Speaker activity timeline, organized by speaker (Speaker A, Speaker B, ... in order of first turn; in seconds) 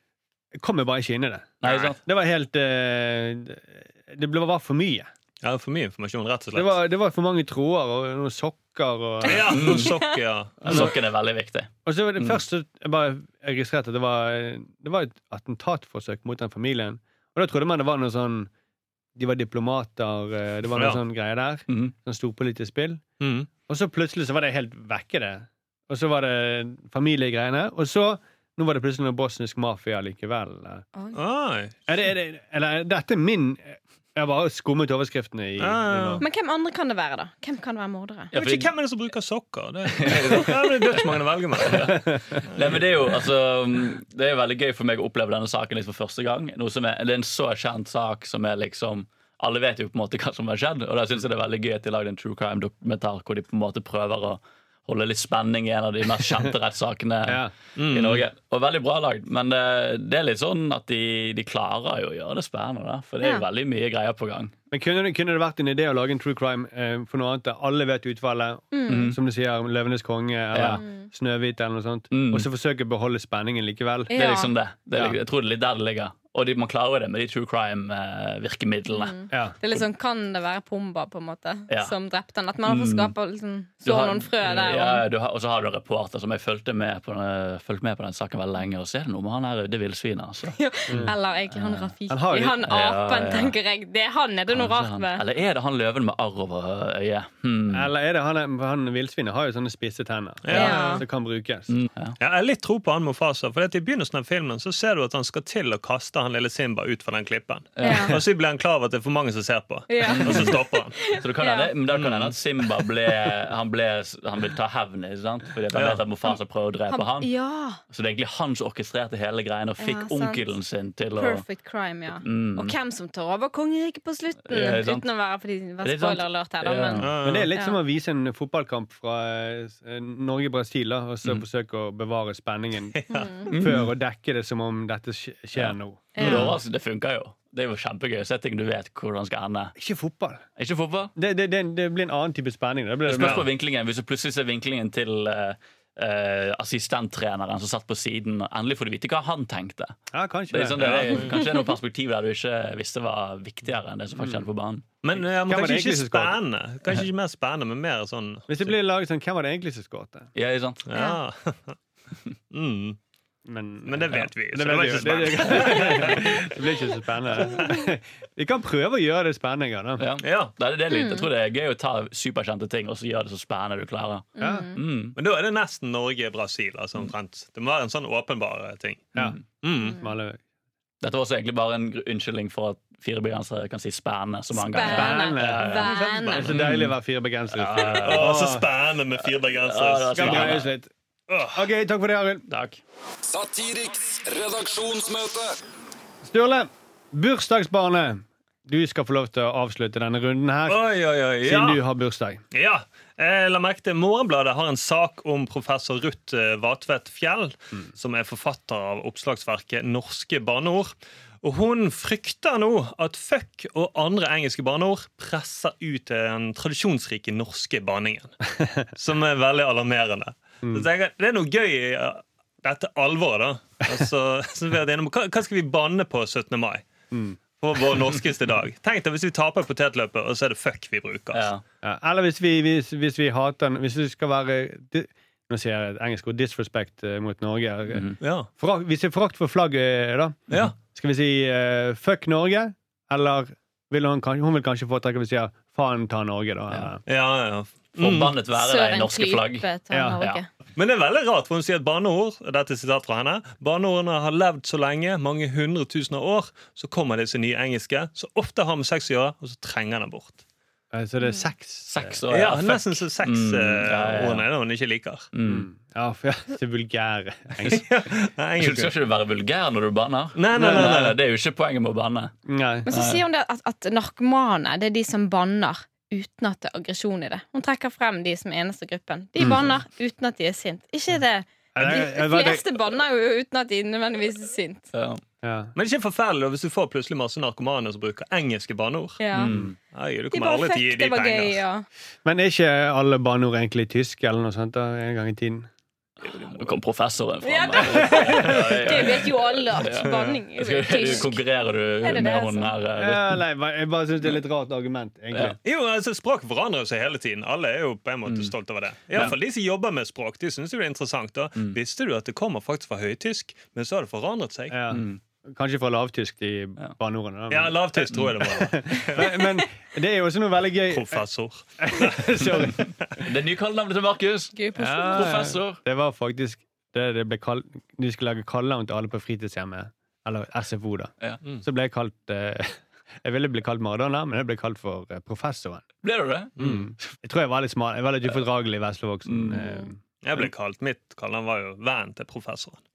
Speaker A: 0.6-5.1, 6.5-9.8, 10.6-10.9, 11.9-18.5, 19.2-23.0, 23.7-30.9, 31.9-36.2, 41.8-42.2, 57.3-57.5, 64.7-74.1, 92.1-92.6, 97.7-101.8, 127.2-136.5, 139.8-140.4, 141.2-143.5, 150.1-151.2, 154.2-154.4, 155.5-156.4, 158.5-160.3, 163.4-170.0, 174.4-174.7, 179.2-180.4, 184.8-188.7, 190.2-190.9, 191.5-192.5, 196.2-200.8, 201.4-202.4, 227.1-227.4, 231.8-247.0, 249.9-250.2, 260.9-262.2, 265.4-267.9, 270.6-271.1, 272.5-272.9, 281.8-282.6, 285.4-285.7, 292.2-295.7, 297.8-298.9, 303.0-305.6, 314.7-321.2, 321.8-322.9, 324.8-335.8, 336.6-340.0
Speaker B: 1.6-2.0, 9.5-9.9, 10.6-12.4, 38.3-38.7, 40.0-40.7, 41.6-41.9, 42.5-64.5, 68.9-69.2, 70.5-70.8, 72.1-72.5, 74.1-79.2, 81.7-81.9, 82.7-83.1, 83.8-91.9, 92.7-93.5, 94.5-97.9, 101.7-102.2, 107.8-108.1, 110.2-110.6, 111.1-117.3, 117.9-121.4, 122.2-122.8, 124.5-125.1, 125.8-127.1, 133.5-133.9, 135.6-139.8, 140.6-141.1, 143.1-149.9, 150.5-154.8, 160.3-160.8, 170.0-175.2, 181.0-186.9, 187.6-188.3, 189.4-190.7, 192.5-192.8, 231.3-231.6, 237.9-238.2, 248.0-249.7, 261.9-264.5, 265.3-265.7, 268.6-272.3, 272.9-273.2, 284.9-285.2, 289.4-289.7, 296.2-303.4, 308.3-308.5, 314.9-315.2, 323.2-325.8, 336.0-337.0, 339.3-339.6
Speaker C: 5.4-6.8, 9.2-10.9, 20.7-21.0, 23.2-23.5, 31.1-31.7, 35.6-36.2, 38.3-42.0, 57.8-58.2, 100.5-101.0, 102.2-111.0, 111.9-112.3, 115.7-116.0, 127.0-127.5, 132.9-133.3, 143.2-143.4, 150.8-151.3, 155.0-158.7, 160.9-161.8, 162.5-163.0, 163.8-166.5, 170.2-170.5, 175.2-180.0, 185.8-186.6, 187.9-190.6, 191.3-191.6, 200.7-201.8, 202.5-218.3, 218.9-226.8, 227.6-231.5, 238.2-238.5, 247.1-248.4, 250.8-260.4, 262.3-265.3, 267.6-268.9, 270.4-271.1, 285.8-289.2, 289.9-291.6, 300.1-300.4, 305.6-314.8, 317.5-319.4, 320.9-322.8, 340.2-342.8
Speaker D: 36.2-38.3, 63.2-63.5, 68.7-69.1, 70.8-71.1, 74.1-74.5, 78.9-85.1, 90.5-95.2, 100.5-101.0, 107.8-108.2, 109.9-111.7, 116.9-117.8, 119.8-120.5, 121.2-127.8, 133.1-133.5, 136.2-136.6, 160.9-161.2, 170.9-171.3, 174.4-174.8, 184.5-186.5, 248.5-250.5, 272.9-284.9, 289.2-289.6, 290.3-291.9, 297.4-302.8, 324.5-325.5
Speaker E: 193.2-195.6